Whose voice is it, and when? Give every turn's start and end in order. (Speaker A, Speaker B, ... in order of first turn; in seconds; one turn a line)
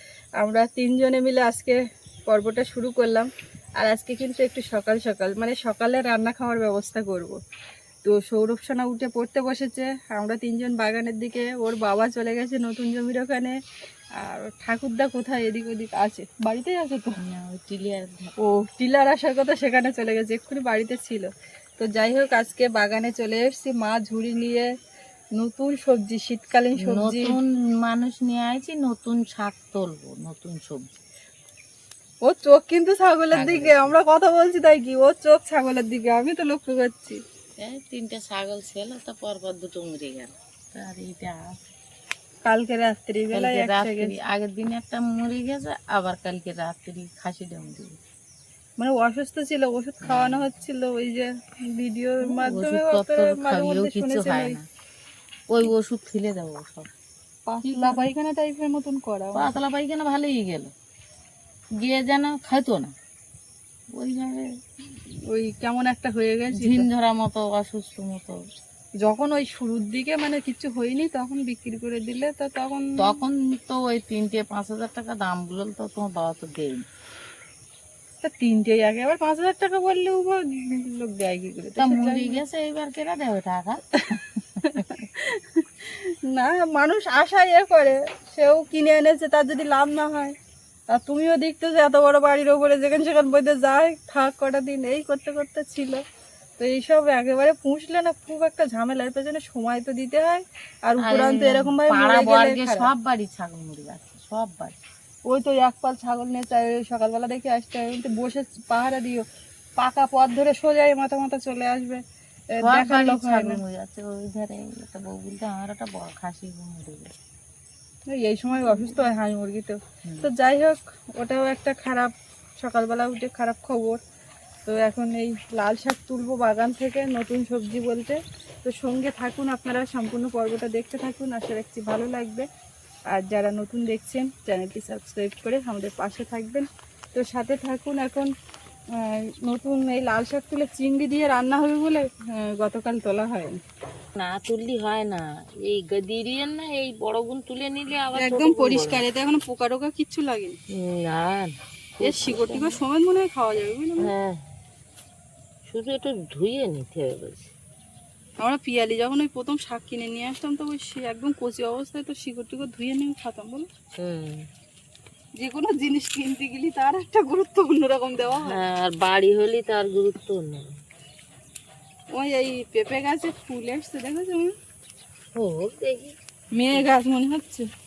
Speaker A: 0.4-7.4
Speaker A: 8.0-13.6
Speaker A: 14.2-17.2
Speaker B: 17.2-18.4
Speaker A: 18.4-24.7
Speaker A: 25.4-27.4
Speaker B: 26.8-31.0
Speaker A: 32.2-37.2
Speaker B: 33.3-33.9
Speaker B: 37.6-41.6
Speaker A: 42.5-44.1
Speaker B: 43.3-48.0
Speaker A: 48.8-54.6
Speaker B: 50.0-50.5
Speaker B: 52.2-54.6
Speaker B: 55.5-56.9
Speaker A: 57.5-59.5
Speaker B: 57.6-58.0
Speaker B: 59.3-60.7
Speaker B: 61.8-62.9
Speaker B: 63.9-64.5
Speaker A: 65.3-66.9
Speaker B: 66.5-68.4
Speaker A: 69.0-73.0
Speaker B: 73.0-76.9
Speaker A: 78.2-82.4
Speaker B: 81.8-85.0
Speaker A: 84.6-90.3
Speaker A: 90.9-96.0
Speaker A: 96.6-102.9
Speaker B: 101.0-104.8
Speaker A: 105.3-109.2
Speaker A: 109.8-113.6
Speaker B: 112.6-117.1
Speaker A: 118.1-124.0
Speaker B: 118.6-119.0
Speaker B: 120.0-120.3
Speaker A: 124.7-132.5
Speaker A: 133.1-138.3
Speaker A: 138.9-143.6
Speaker B: 144.2-149.0
Speaker A: 148.2-150.6
Speaker B: 150.7-152.8
Speaker A: 152.0-154.1
Speaker B: 154.0-154.4
Speaker B: 155.7-157.5
Speaker A: 158.4-163.7
Speaker B: 163.9-164.5
Speaker A: 165.4-168.6
Speaker B: 168.4-170.8
Speaker A: 172.1-174.6
Speaker B: 175.3-176.2
Speaker A: 176.5-177.7